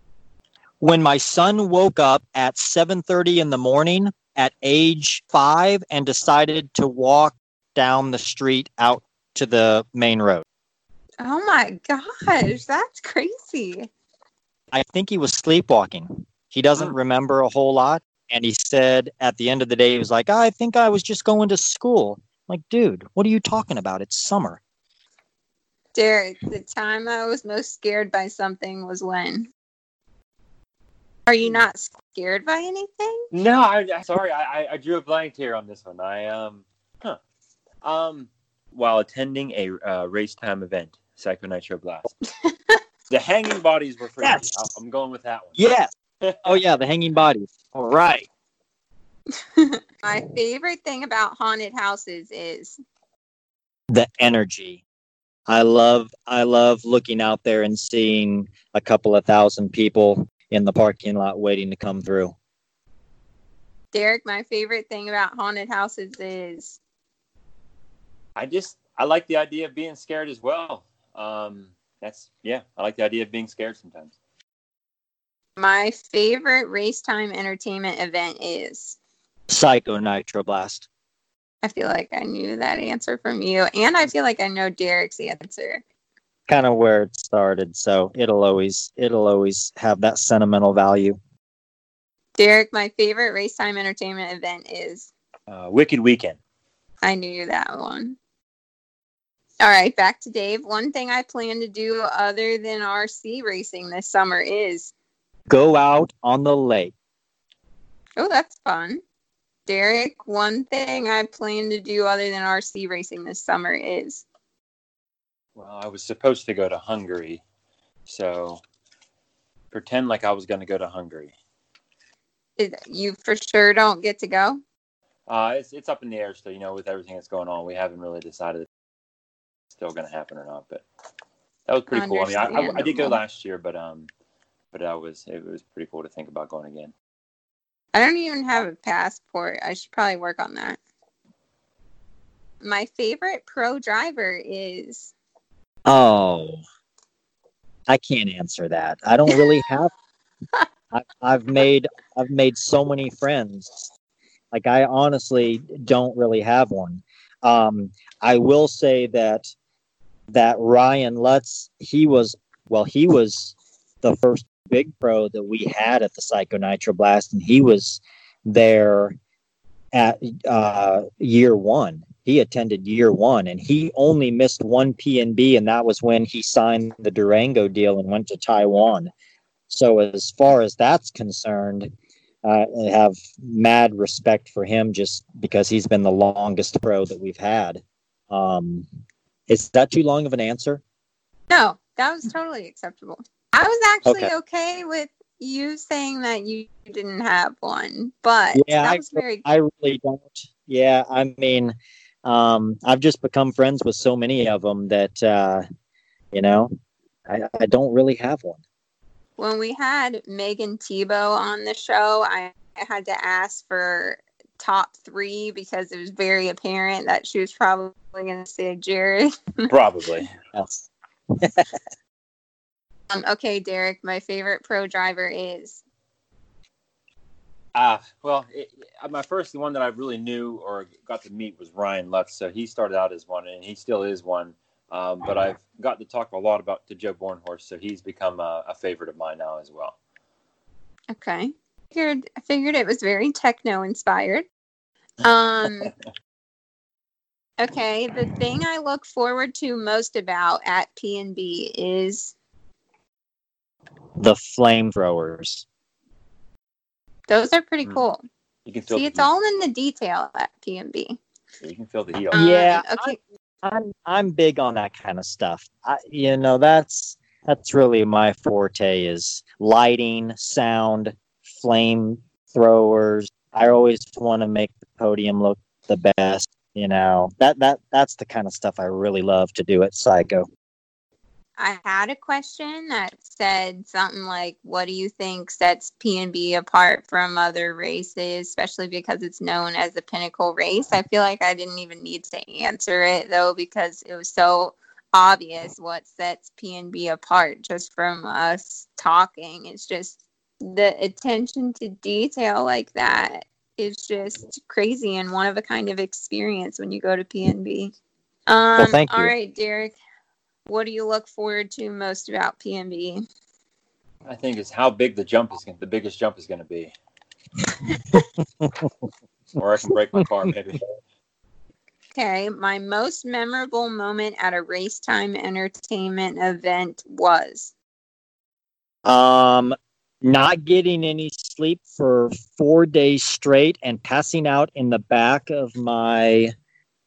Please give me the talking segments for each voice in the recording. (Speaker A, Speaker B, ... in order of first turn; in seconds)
Speaker A: 0.8-10.4, 14.7-24.6, 44.2-44.5, 45.5-45.9, 46.4-48.3, 53.9-54.8, 55.5-62.3, 79.5-80.9, 86.5-91.2, 105.5-106.9, 145.9-146.6, 147.9-149.9, 150.9-153.9, 154.5-159.5, 160.3-169.2, 169.9-179.1, 179.7-181.9, 182.4-188.9, 189.5-190.8, 194.1-194.3, 198.5-205.6, 206.3-206.7, 207.3-208.6, 220.5-220.9, 221.4-221.7, 254.2-255.6, 262.3-280.5, 308.8-309.3, 318.1-318.9, 329.0-336.5
Speaker B: 11.2-13.9, 25.9-29.5, 31.3-33.3, 42.4-42.8, 49.5-52.8, 63.9-66.8, 75.6-79.0, 81.6-85.8, 92.4-95.1, 97.0-98.2, 99.6-104.9, 108.2-109.0, 109.7-114.2, 122.6-124.6, 131.9-133.2, 137.9-140.8, 142.6-145.1, 191.5-199.4, 209.4-219.7, 223.1-225.8, 241.1-244.4, 245.2-245.9, 247.6-252.3, 257.3-258.2, 258.9-261.2, 262.3-263.2, 281.6-307.9, 308.5-309.9, 310.7-313.2, 322.1-327.7
Speaker C: 33.3-37.2, 37.8-42.1, 43.1-45.5, 68.3-74.1, 95.5-96.4, 115.5-117.4, 118.1-118.6, 119.7-121.3, 125.3-128.7, 129.8-130.8, 131.7-134.1, 134.7-136.9, 219.7-220.3, 227.7-240.0, 258.6-259.3, 261.6-262.4, 314.2-316.9, 319.6-320.9